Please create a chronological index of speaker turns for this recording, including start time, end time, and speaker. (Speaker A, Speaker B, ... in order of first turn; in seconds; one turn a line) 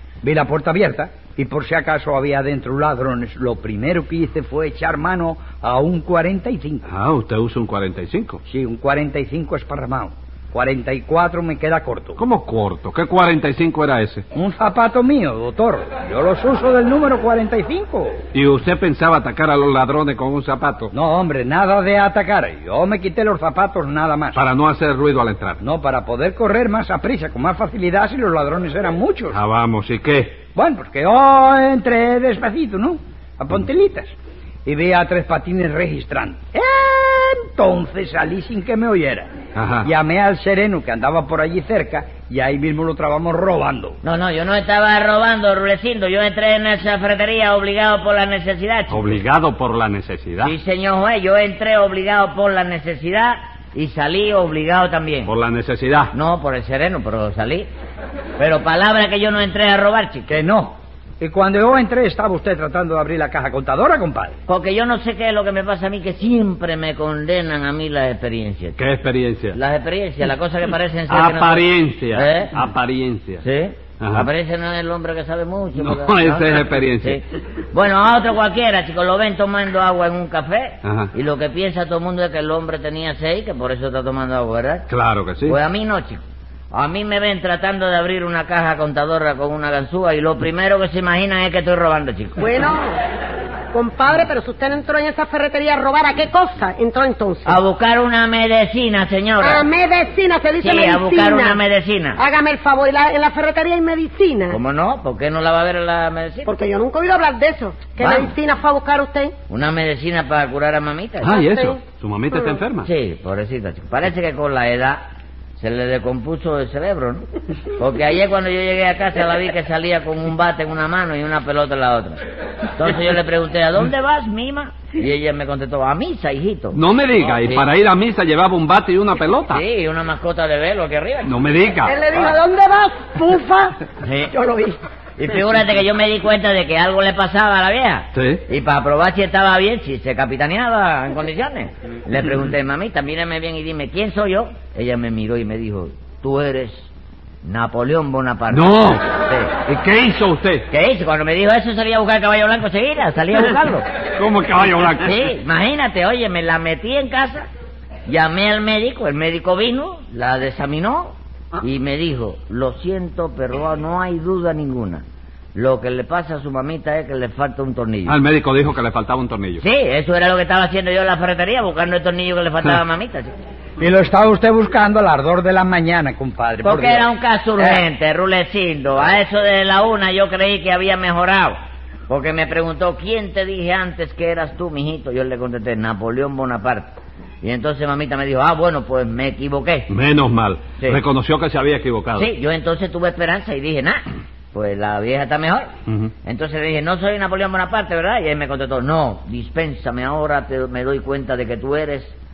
Speaker A: 0.2-6.8
Speaker B: 6.9-8.4
Speaker A: 8.5-12.2
Speaker B: 12.2-14.2
Speaker A: 14.3-18.2
Speaker B: 18.3-20.9
Speaker A: 20.9-24.4
Speaker B: 24.3-25.6
Speaker A: 25.6-29.4
Speaker B: 29.3-30.4
Speaker A: 30.5-34.1
Speaker A: 34.6-39.3
Speaker B: 39.5-39.9
Speaker A: 39.8-44.0
Speaker C: 44.0-49.2
Speaker B: 48.9-50.5
Speaker C: 50.4-55.3
Speaker B: 55.3-56.1
Speaker C: 56.1-57.7
Speaker C: 58.4-60.3
Speaker A: 60.3-64.4
Speaker C: 64.5-68.8
Speaker B: 68.8-69.6
Speaker C: 69.5-72.5
Speaker B: 71.1-73.4
Speaker C: 73.4-84.9
Speaker B: 74.0-74.3
Speaker B: 75.8-77.2
Speaker B: 80.8-81.1
Speaker B: 84.9-85.6
Speaker C: 85.4-92.4
Speaker D: 92.4-93.0
Speaker D: 93.7-97.6
Speaker C: 97.5-99.7
Speaker D: 99.4-101.6
Speaker C: 100.6-102.2
Speaker D: 102.2-104.6
Speaker C: 104.5-106.5
Speaker D: 106.5-109.3
Speaker C: 108.0-108.3
Speaker C: 109.5-111.4
Speaker B: 111.2-112.9
Speaker D: 111.3-111.8
Speaker C: 112.8-115.0
Speaker C: 115.6-117.2
Speaker C: 117.8-122.2
Speaker C: 122.8-126.8
Speaker B: 126.7-129.6
Speaker C: 127.4-127.7
Speaker C: 129.5-131.4
Speaker B: 131.2-131.9
Speaker D: 131.8-133.8
Speaker C: 134.0-146.9
Speaker B: 138.1-138.4
Speaker C: 147.4-149.5
Speaker B: 148.5-149.1
Speaker B: 149.6-150.7
Speaker C: 150.7-153.8
Speaker B: 154.2-155.3
Speaker C: 155.0-157.5
Speaker C: 158.1-165.0
Speaker C: 165.5-168.2
Speaker B: 168.1-169.6
Speaker C: 169.6-173.3
Speaker A: 173.8-177.1
Speaker C: 176.6-181.6
Speaker A: 177.6-177.8
Speaker C: 182.1-189.9
Speaker B: 189.9-192.3
Speaker C: 192.2-195.7
Speaker C: 196.2-202.1